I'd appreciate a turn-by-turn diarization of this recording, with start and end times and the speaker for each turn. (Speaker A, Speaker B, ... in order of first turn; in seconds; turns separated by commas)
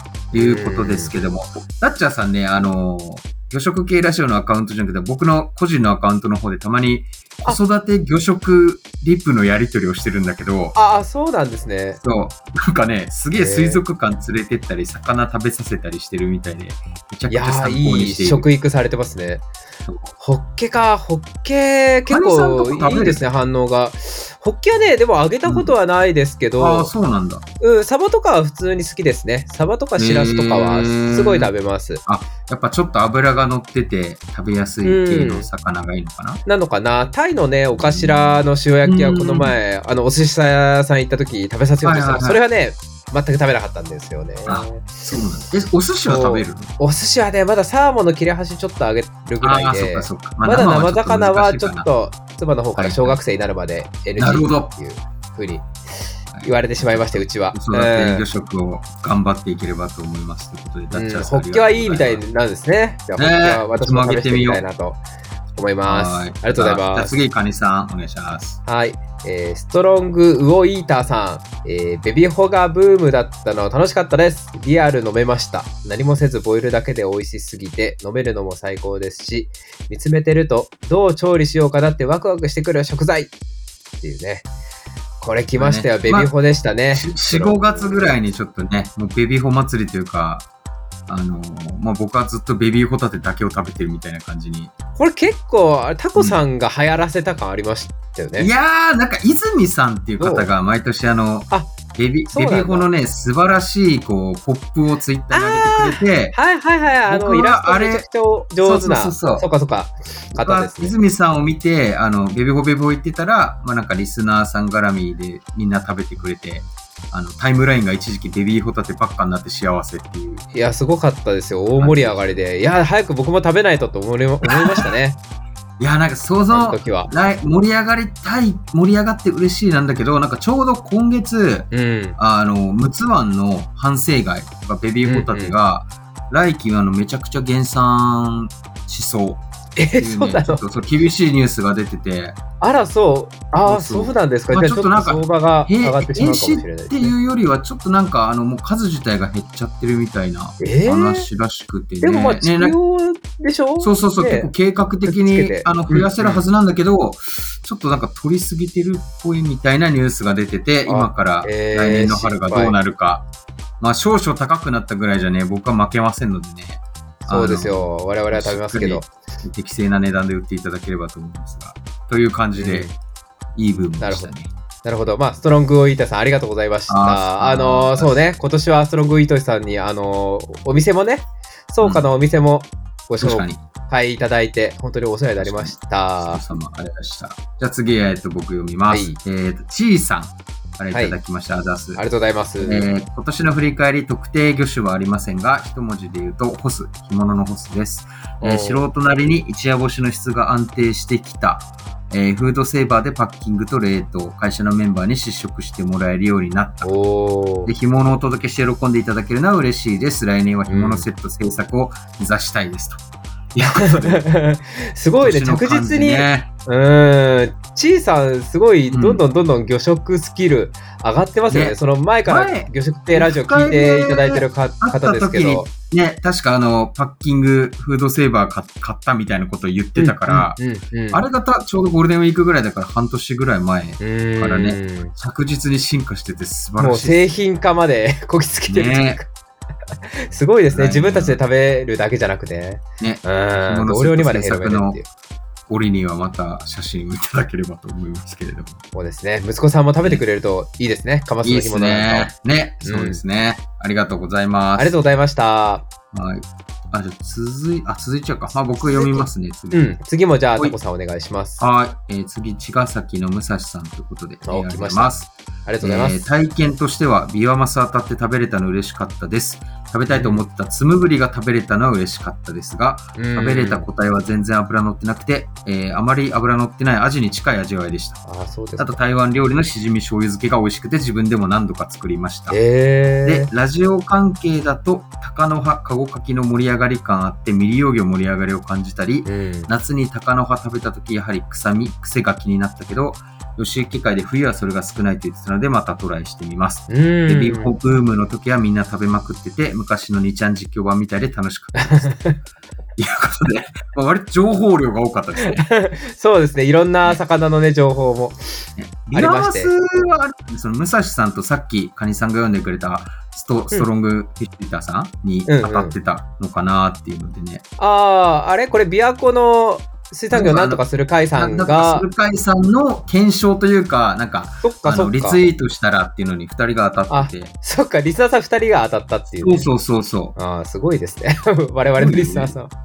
Speaker A: 0.3-10.8, Speaker B: 0.3-1.1, Speaker B: 10.8-12.0, Speaker A: 12.0-18.5, Speaker B: 13.3-13.8, Speaker B: 17.3-19.4, Speaker A: 19.9-20.1, Speaker B: 20.2-26.9, Speaker A: 22.1-23.2, Speaker A: 25.5-25.7, Speaker A: 26.6-27.4, Speaker B: 27.6-32.0, Speaker A: 30.0-31.5, Speaker A: 32.0-36.4, Speaker B: 34.8-35.5, Speaker B: 36.5-44.9, Speaker A: 37.8-39.6, Speaker A: 41.8-42.4, Speaker A: 44.5-46.7, Speaker B: 46.1-55.7, Speaker A: 49.4-51.9, Speaker A: 52.8-53.2, Speaker A: 54.2-54.7, Speaker A: 56.3-62.2, Speaker B: 56.4-58.3, Speaker B: 60.9-65.0, Speaker A: 63.2-64.6, Speaker B: 65.5-67.1, Speaker A: 65.9-68.6, Speaker B: 68.7-83.3, Speaker B: 84.0-84.5, Speaker B: 85.2-88.2, Speaker A: 85.6-86.4, Speaker A: 86.9-90.5, Speaker A: 91.1-94.7, Speaker B: 95.0-98.5, Speaker A: 96.2-96.4, Speaker A: 98.4-106.4, Speaker B: 100.2-100.5, Speaker B: 102.3-102.9, Speaker B: 105.3-111.0, Speaker A: 107.1-108.1, Speaker A: 108.6-109.5, Speaker A: 110.4-120.5, Speaker B: 120.5-125.2, Speaker A: 121.8-122.4, Speaker A: 124.4-124.9, Speaker A: 125.8-139.4, Speaker B: 126.5-127.1, Speaker B: 131.7-132.2, Speaker B: 135.1-135.6, Speaker B: 139.8-140.6, Speaker A: 140.0-142.4, Speaker B: 142.6-147.2, Speaker A: 143.6-152.8, Speaker B: 150.6-151.3, Speaker B: 152.0-154.5, Speaker A: 153.8-163.3, Speaker B: 155.1-156.5, Speaker B: 160.9-162.8, Speaker A: 163.8-172.9, Speaker B: 167.3-169.1, Speaker B: 172.6-172.9, Speaker A: 173.6-174.5, Speaker B: 174.0-174.3, Speaker B: 174.8-186.4, Speaker A: 176.9-178.2, Speaker A: 181.8-182.1, Speaker A: 183.2-183.6, Speaker A: 185.4-192.0, Speaker B: 188.9-189.2, Speaker B: 190.9-191.2, Speaker B: 192.0-192.9, Speaker A: 192.6-206.9, Speaker B: 198.4-198.9, Speaker B: 206.8-207.7, Speaker A: 207.7-213.0, Speaker B: 210.7-211.1, Speaker A: 213.5-214.2, Speaker B: 213.6-225.7, Speaker A: 215.2-216.5, Speaker A: 218.9-219.2, Speaker A: 221.5-230.6, Speaker B: 230.0-231.2, Speaker A: 231.1-237.2, Speaker B: 234.0-235.1, Speaker B: 236.8-239.3, Speaker A: 238.7-239.2, Speaker B: 240.1-245.1, Speaker A: 240.7-241.4, Speaker A: 243.0-245.0, Speaker A: 245.7-248.8, Speaker B: 248.9-252.3, Speaker A: 251.4-254.9, Speaker B: 252.8-253.2, Speaker B: 254.8-255.9, Speaker A: 256.1-260.0, Speaker B: 258.5-261.7, Speaker A: 261.6-278.2, Speaker B: 264.4-266.3, Speaker B: 270.1-270.4, Speaker B: 273.2-273.9, Speaker B: 278.3-279.0, Speaker A: 278.8-282.6, Speaker B: 282.5-283.5, Speaker A: 283.2-302.2, Speaker B: 289.2-289.7, Speaker B: 296.9-297.7, Speaker B: 301.8-302.4, Speaker A: 303.0-305.6, Speaker B: 305.4-309.7, Speaker A: 308.8-317.6, Speaker B: 315.5-316.0, Speaker B: 317.8-322.1, Speaker A: 320.3-327.5, Speaker B: 324.6-325.4, Speaker B: 327.1-329.7, Speaker A: 329.4-330.4, Speaker B: 330.4-332.7, Speaker A: 332.0-332.6